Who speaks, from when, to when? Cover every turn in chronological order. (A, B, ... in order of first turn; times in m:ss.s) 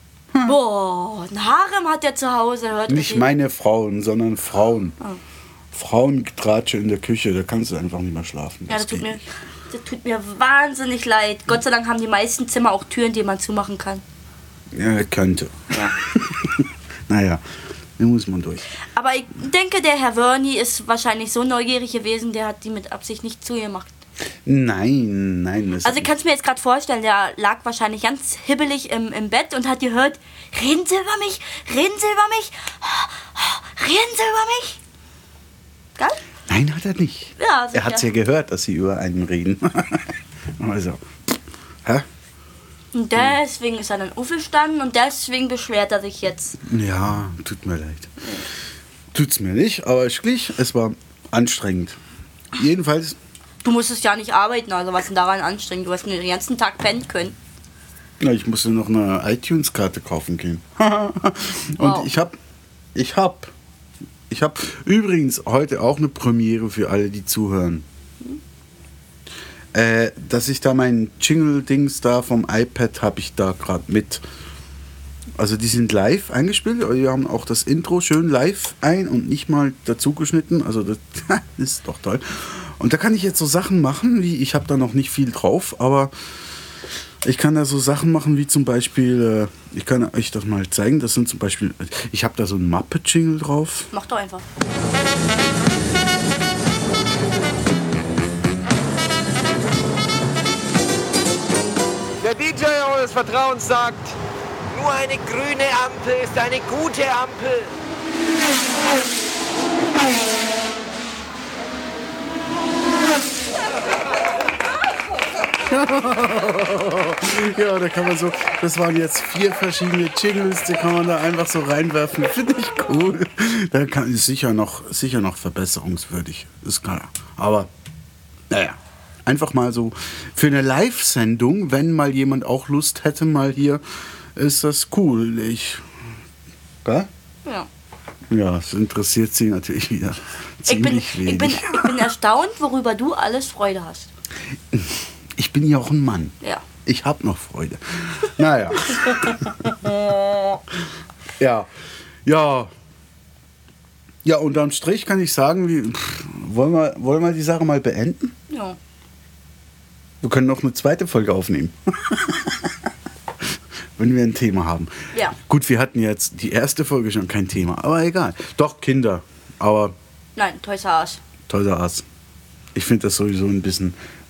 0:00.4-0:03.3 A
0:02.9-0:05.0 B
0:05.7-0:09.2 B
0:08.7-0:14.0 A
0:14.7-0:17.4 B
0:18.0-0:18.7 B
0:18.8-0:24.0 A
0:24.5-0:26.1 B
0:25.8-0:34.8 A
0:36.5-0:41.0 B
0:37.4-0:38.1 A
0:42.9-0:46.6 A
0:46.6-0:48.2 B
0:48.2-0:48.5 A
0:49.1-0:52.0 B
0:52.5-0:53.2 B
0:53.6-0:57.4 A
0:58.2-1:02.4 B
1:01.8-1:02.1 A
1:03.0-1:03.5 B
1:04.3-1:07.8 B
1:09.7-1:14.2 B
1:15.4-1:26.1 B
1:27.2-1:33.9 B
1:33.9-1:34.4 A
1:42.2-1:44.2 C
1:44.7-1:47.7 C
1:55.6-2:07.7 B
2:08.5-2:13.8 B
2:14.4-2:15.8 B
2:18.3-2:22.0 B
2:20.7-2:24.1 A
2:24.7-2:26.3 B
2:26.8-2:29.8 B
2:28.9-2:30.6 A
2:31.4-2:31.7 B
2:32.2-2:32.7 B
2:34.2-2:38.3 B
2:38.5-2:38.8 A
2:40.2-2:42.8 B
2:44.0-2:49.9 B
2:50.4-2:51.2 A
2:51.5-2:52.0 B
2:52.8-2:54.0 B